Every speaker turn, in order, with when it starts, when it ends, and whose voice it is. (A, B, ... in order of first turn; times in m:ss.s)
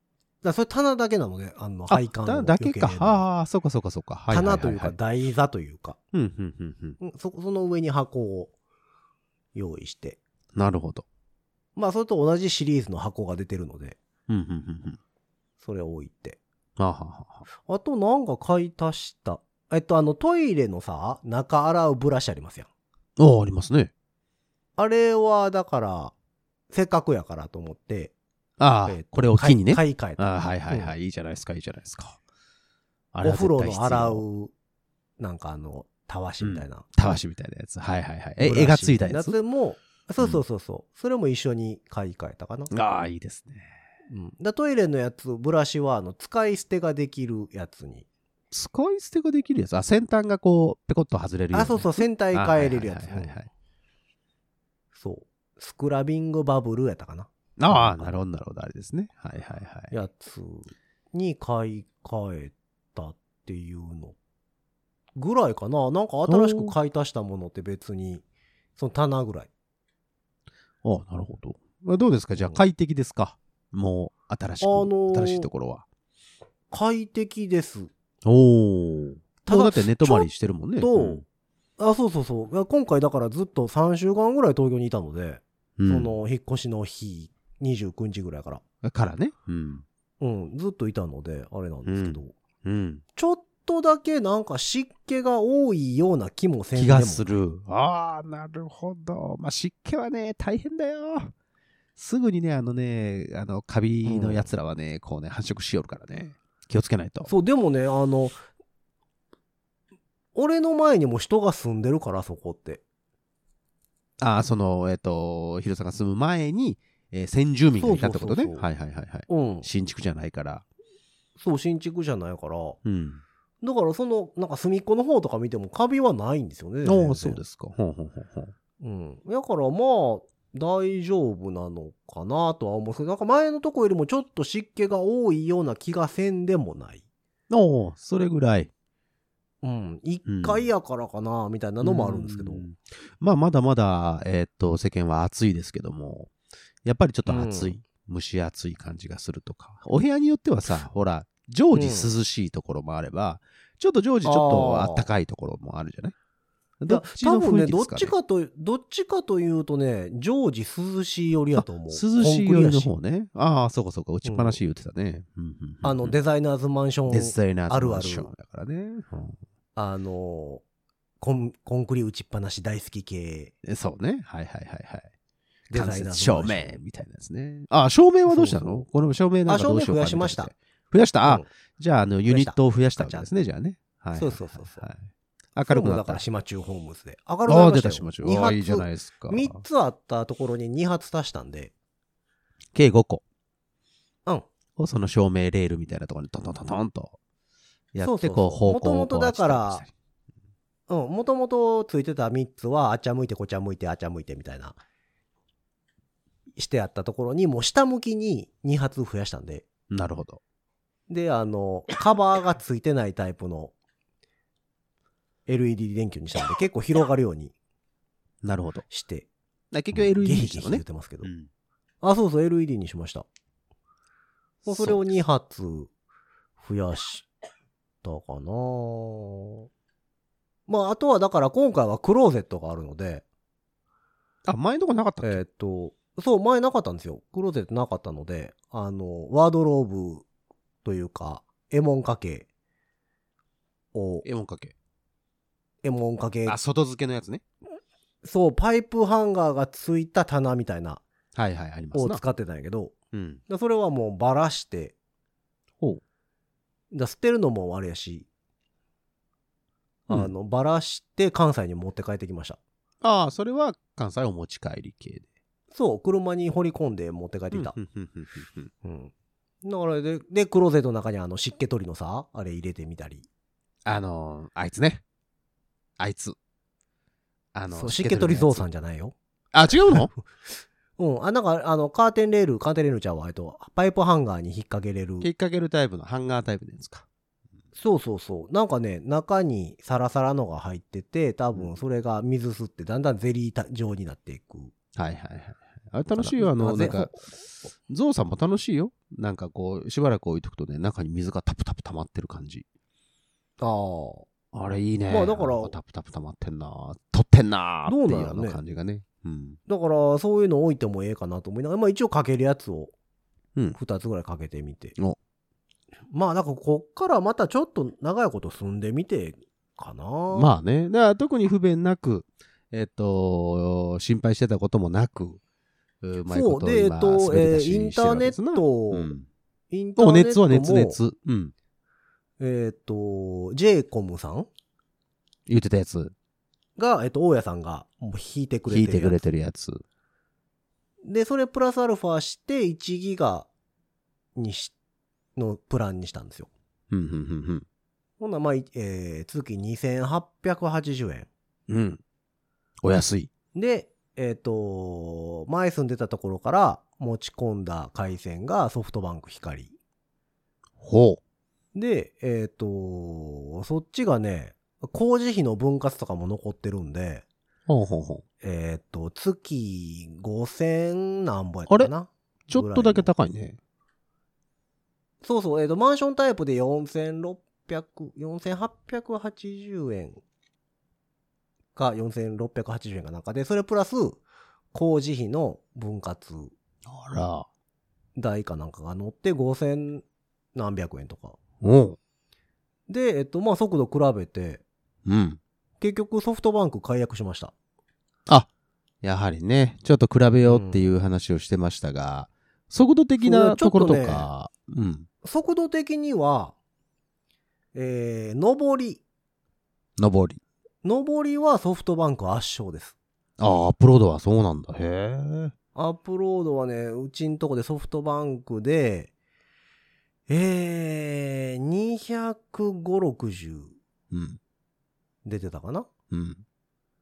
0:00.4-0:03.2 A
0:01.9-0:05.0 B
0:04.3-0:06.0 A
0:06.1-0:07.0 B
0:07.0-0:08.5 A
0:09.5-0:10.2 A
0:10.5-0:11.0 B
0:11.8-0:14.0 A
0:14.3-0:15.0 B
0:15.6-0:16.4 A
0:16.8-0:17.4 B
0:17.6-0:22.7 A
0:23.2-0:23.9 B
0:24.8-0:26.1 A
0:26.7-0:28.1 A
0:28.6-0:32.2 B
0:28.8-0:30.9 A
0:33.1-0:34.2 B
0:33.2-0:34.5 A
0:35.2-0:36.8 A
0:36.4-0:39.4 B
0:38.4-0:42.7 A
0:42.7-0:43.7 B
0:44.1-0:48.0 A
0:48.5-0:53.5 B
0:51.5-0:53.4 A
0:54.9-0:58.2 A
0:57.6-0:59.9 B
0:59.9-1:04.2 A
1:05.2-1:08.2 A
1:06.2-1:06.7 B
1:08.8-1:09.5 A
1:10.8-1:15.8 B
1:14.6-1:15.5 A
1:16.7-1:17.9 A
1:18.2-1:21.2 B
1:19.4-1:21.2 A
1:21.8-1:28.6 A
1:25.8-1:26.1 B
1:28.8-1:29.8 B
1:30.2-1:32.3 A
1:31.8-1:33.0 B
1:33.2-1:37.4 A
1:36.7-1:41.3 B
1:42.0-1:47.3 B
1:44.0-1:44.5 A
1:47.2-1:48.4 A
1:50.3-1:52.8 A
1:54.2-2:00.6 B
1:57.8-1:58.7 A
1:59.3-1:59.7 A
2:01.4-2:02.8 A
2:02.8-2:03.2 B
2:03.6-2:07.4 A
2:06.8-2:08.5 B
2:08.8-2:17.0 A
2:17.5-2:18.7 B
2:19.6-2:22.6 A
2:20.2-2:20.6 B
2:21.8-2:26.3 B
2:26.8-2:36.1 B
2:27.2-2:27.8 A
2:31.7-2:32.1 A
2:34.2-2:35.1 A
2:36.8-2:38.1 B
2:36.9-2:42.9 A
2:41.6-2:46.2 B
2:44.2-2:44.6 A
2:45.8-2:48.3 A
2:47.1-2:49.4 B
2:49.8-2:50.6 A
2:51.2-2:53.5 A
2:53.6-2:55.1 B
2:55.7-2:56.8 A
2:55.7-3:06.2 B
2:58.3-2:58.8 A
2:59.5-3:00.5 A
3:02.3-3:03.3 A
3:04.2-3:04.8 A
3:05.6-3:11.7 A
3:07.4-3:09.6 B
3:12.7-3:13.2 B
3:14.8-3:17.2 B
3:17.9-3:19.9 B
3:18.0-3:19.8 A
3:20.9-3:24.8 A
3:26.6-3:29.6 A
3:29.9-3:30.4 B
3:31.1-3:33.7 A
3:35.5-3:37.5 A
3:38.4-3:38.8 B
3:38.9-3:39.3 A
3:39.7-3:41.5 B
3:39.9-3:41.3 A
3:42.0-3:43.2 A
3:44.6-3:45.0 B
3:44.6-3:45.9 A
3:46.6-3:47.3 A
3:48.0-3:49.7 A
3:50.7-3:53.2 A
3:54.4-3:55.4 B
3:55.2-4:00.2 A
4:00.8-4:02.5 A
4:03.9-4:04.2 A
4:04.2-4:04.7 B
4:05.8-4:06.6 A
4:06.4-4:07.4 B
4:08.2-4:11.0 A
4:11.3-4:12.2 B
4:11.9-4:12.9 A
4:13.1-4:13.4 B
4:13.5-4:14.9 A
4:16.9-4:18.3 A
4:20.1-4:22.6 A
4:23.0-4:25.2 B
4:25.7-4:27.8 A
4:27.5-4:28.7 B
4:28.8-4:29.1 A
4:29.6-4:33.2 A
4:33.8-4:35.0 B
4:36.0-4:36.4 B
4:37.5-4:38.6 B
4:37.7-4:39.1 A
4:39.5-4:40.1 B
4:41.0-4:45.3 A
4:45.2-4:47.0 B
4:47.8-4:54.7 A
4:55.0-4:57.2 B
4:56.1-4:57.2 A
4:57.9-5:02.6 B
5:03.6-5:04.3 A
5:04.5-5:09.6 B
5:05.1-5:05.7 A
5:07.8-5:08.6 A
5:09.7-5:12.9 A
5:13.7-5:15.0 A
5:16.1-5:20.5 A
5:20.3-5:25.4 B
5:26.0-5:29.3 B
5:26.3-5:29.1 A
5:29.7-5:31.0 A
5:30.0-5:31.5 B
5:32.4-5:34.5 A
5:35.5-5:36.1 B
5:36.8-5:39.2 A
5:38.7-5:39.8 B
5:41.0-5:43.5 A
5:44.4-5:44.7 A
5:45.4-5:46.5 A
5:46.9-5:47.6 B
5:48.2-5:51.3 A
5:51.7-5:52.0 B
5:52.8-5:53.3 B
5:53.5-5:59.7 A
6:00.8-6:01.2 B
6:01.7-6:07.2 A
6:07.7-6:08.2 B
6:08.4-6:13.1 A
6:12.5-6:13.6 B
6:15.2-6:20.2 A
6:21.8-6:24.2 A
6:24.7-6:26.5 A
6:26.8-6:27.5 B
6:28.2-6:31.4 A
6:31.6-6:32.0 B
6:32.9-6:34.6 A
6:35.0-6:35.4 B
6:35.8-6:37.5 A
6:39.0-6:45.1 B
6:40.4-6:40.9 A
6:43.2-6:44.3 A
6:45.2-6:46.5 A
6:47.7-6:49.0 A
6:50.0-6:50.4 B
6:50.8-6:53.0 A
6:53.4-6:55.5 B
6:55.7-6:59.1 A
7:00.3-7:03.8 A
7:04.1-7:04.4 B
7:05.2-7:05.9 A
7:06.1-7:06.4 B